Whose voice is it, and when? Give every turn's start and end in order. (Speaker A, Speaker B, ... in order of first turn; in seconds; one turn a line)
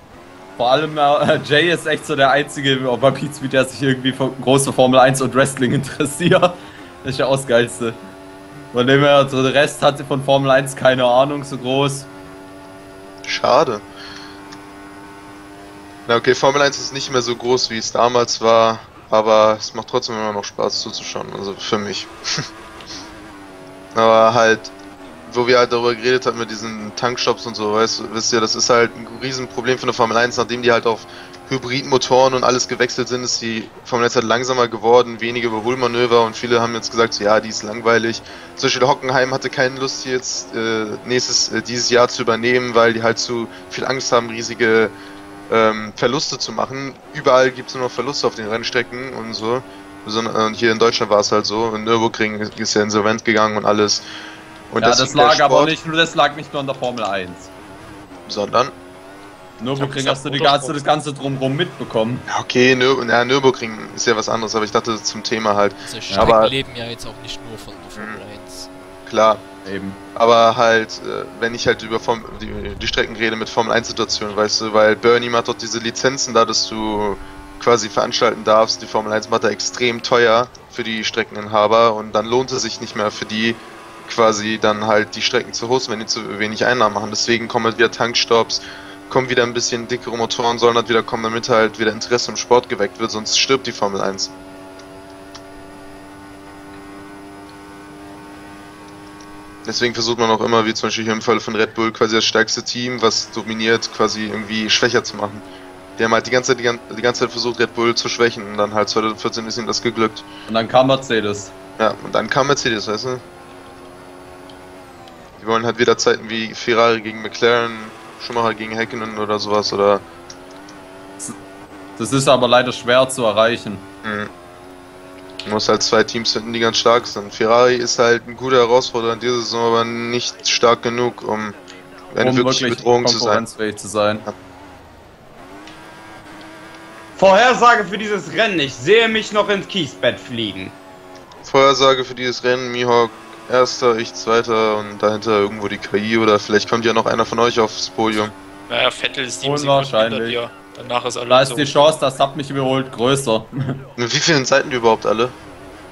Speaker A: 0.6-8.0
Speaker A: 8.7-12.1
Speaker B: 13.2-13.8
Speaker B: 16.1-22.5
Speaker B: 23.9-24.7
Speaker B: 25.2-44.9
Speaker B: 45.5-54.0
Speaker B: 54.7-55.7
Speaker A: 54.8-57.5
Speaker B: 58.3-58.7
Speaker A: 59.6-62.2
Speaker C: 60.0-60.4
Speaker B: 62.3-66.5
Speaker D: 65.8-68.7
Speaker A: 66.1-66.3
Speaker B: 69.0-69.4
Speaker A: 69.6-70.0
Speaker B: 70.1-94.3
Speaker B: 99.6-105.4
Speaker B: 106.0-110.2
Speaker A: 110.5-111.5
Speaker B: 111.8-113.2
Speaker B: 115.4-120.0
Speaker A: 122.0-123.9
Speaker B: 124.0-124.3
Speaker B: 125.4-131.5
Speaker B: 132.1-133.4
Speaker A: 132.2-134.2
Speaker E: 137.2-140.8
Speaker B: 141.4-148.3
Speaker C: 148.7-151.9
Speaker A: 149.4-150.4
Speaker A: 151.2-153.8
Speaker B: 154.0-155.3